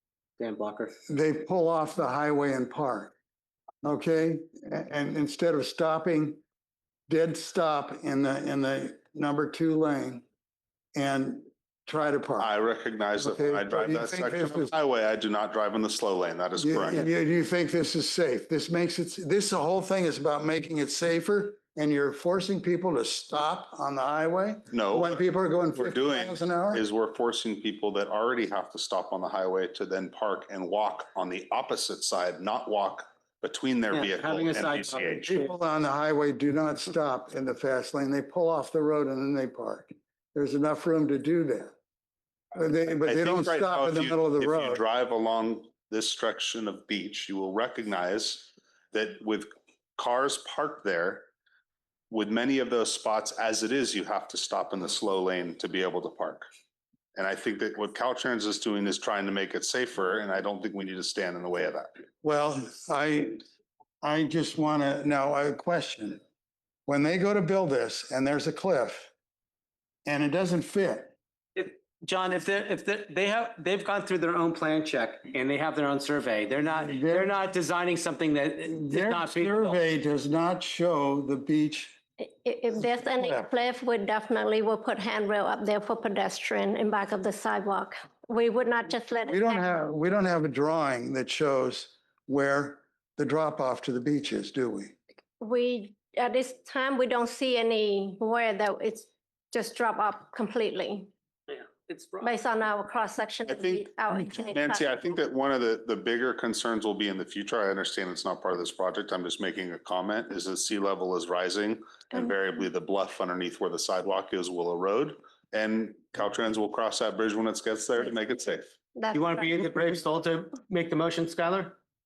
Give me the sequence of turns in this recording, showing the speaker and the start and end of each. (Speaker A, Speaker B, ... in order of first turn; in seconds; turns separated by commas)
Speaker A: 0.4-0.9, Speaker B: 1.1-3.1, Speaker B: 3.8-6.4, Speaker B: 7.1-10.2, Speaker B: 10.9-12.5, Speaker C: 12.4-17.1, Speaker B: 13.2-14.7, Speaker B: 16.6-26.8, Speaker C: 24.7-25.2, Speaker C: 25.7-35.3, Speaker A: 33.9-35.5, Speaker B: 35.3-41.7, Speaker B: 42.5-44.8, Speaker C: 43.0-51.3, Speaker C: 52.1-56.5, Speaker C: 57.1-61.9, Speaker B: 62.2-63.4, Speaker B: 64.0-66.2, Speaker B: 66.9-69.1, Speaker B: 70.0-71.1, Speaker A: 71.5-79.8, Speaker B: 76.8-77.3, Speaker B: 78.8-82.0, Speaker D: 82.2-89.7, Speaker B: 82.8-83.5, Speaker B: 89.3-95.0, Speaker D: 95.4-101.1, Speaker A: 101.5-102.4, Speaker D: 102.2-104.8, Speaker C: 103.5-118.7, Speaker D: 118.9-119.5, Speaker A: 119.1-121.8